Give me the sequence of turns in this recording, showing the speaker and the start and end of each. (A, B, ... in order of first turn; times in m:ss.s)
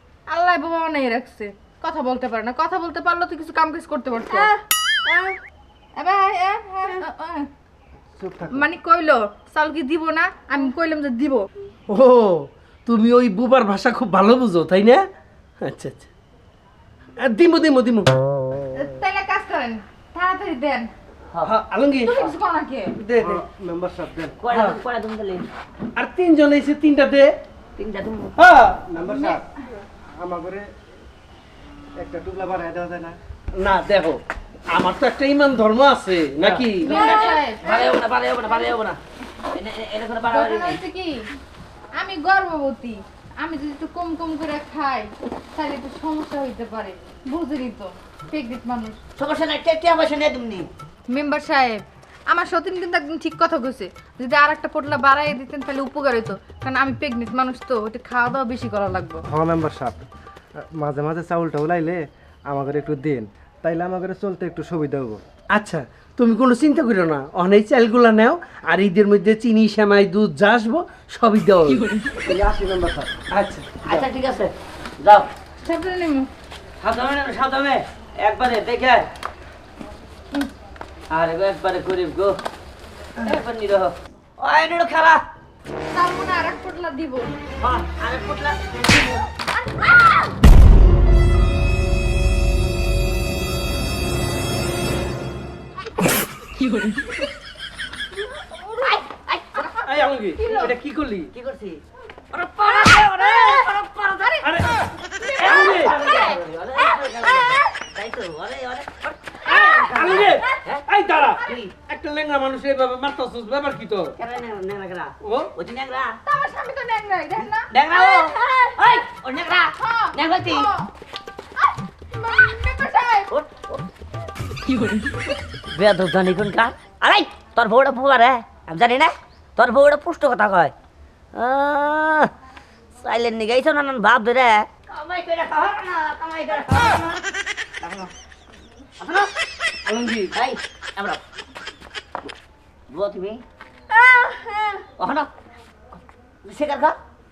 0:00.3-0:04.6 A
0:06.0-0:07.5 A
0:08.2-0:08.7 B
0:08.5-0:11.5 A
0:11.9-0:15.1 C
0:15.6-0:16.1 C
0:17.2-0:18.2 C
0:18.7-0:20.9 A
0:21.4-0:22.4 C
0:22.0-0:23.0 A
0:23.0-0:23.4 C
0:23.2-0:24.4 B
0:24.4-0:25.5 D
0:24.5-0:24.8 C
0:26.0-0:27.3 C
0:27.8-0:28.4 D
0:28.4-0:28.8 C
0:28.9-0:29.4 B
0:29.1-0:29.4 A
0:30.2-0:30.7 B
0:32.0-0:33.2 B
0:33.6-0:34.2 C
0:34.7-0:37.1 C
0:36.4-0:40.8 D
0:36.8-0:38.0 A
0:40.3-0:41.3 A
0:42.0-0:49.0 A
0:49.2-0:50.7 D
0:51.1-0:59.2 A
0:59.3-1:00.0 B
1:00.6-1:05.2 B
1:05.5-1:11.9 C
1:12.2-1:13.1 B
1:13.3-1:13.8 C
1:13.8-1:15.3 D
1:15.6-1:16.3 A
1:16.8-1:19.1 D
1:21.1-1:22.4 D
1:23.2-1:25.2 D
1:25.9-1:27.3 A
1:27.6-1:29.3 D
1:38.4-1:38.8 A
1:38.8-1:39.8 D
1:39.6-1:40.7 A
1:39.8-1:41.3 C
1:40.4-1:40.7 D
1:41.3-1:44.4 D
1:42.8-1:43.6 A
1:44.2-1:47.6 A
1:44.4-1:44.8 C
1:45.4-1:50.8 D
1:45.4-1:46.0 C
1:49.5-1:54.1 C
1:51.4-1:51.7 D
1:54.2-1:56.2 D
1:55.2-1:55.5 C
1:56.3-1:58.8 A
1:57.7-2:00.7 D
1:59.8-2:00.9 A
2:01.6-2:03.3 A
2:03.3-2:03.8 D
2:05.7-2:10.7 D
2:11.4-2:12.3 D
2:12.9-2:17.2 D
2:17.8-2:18.1 D
2:19.0-2:19.3 D
2:19.8-2:20.3 C
2:20.3-2:21.2 D
2:22.9-2:23.4 D
2:24.0-2:24.7 A
2:25.0-2:25.3 D
2:25.9-2:27.0 D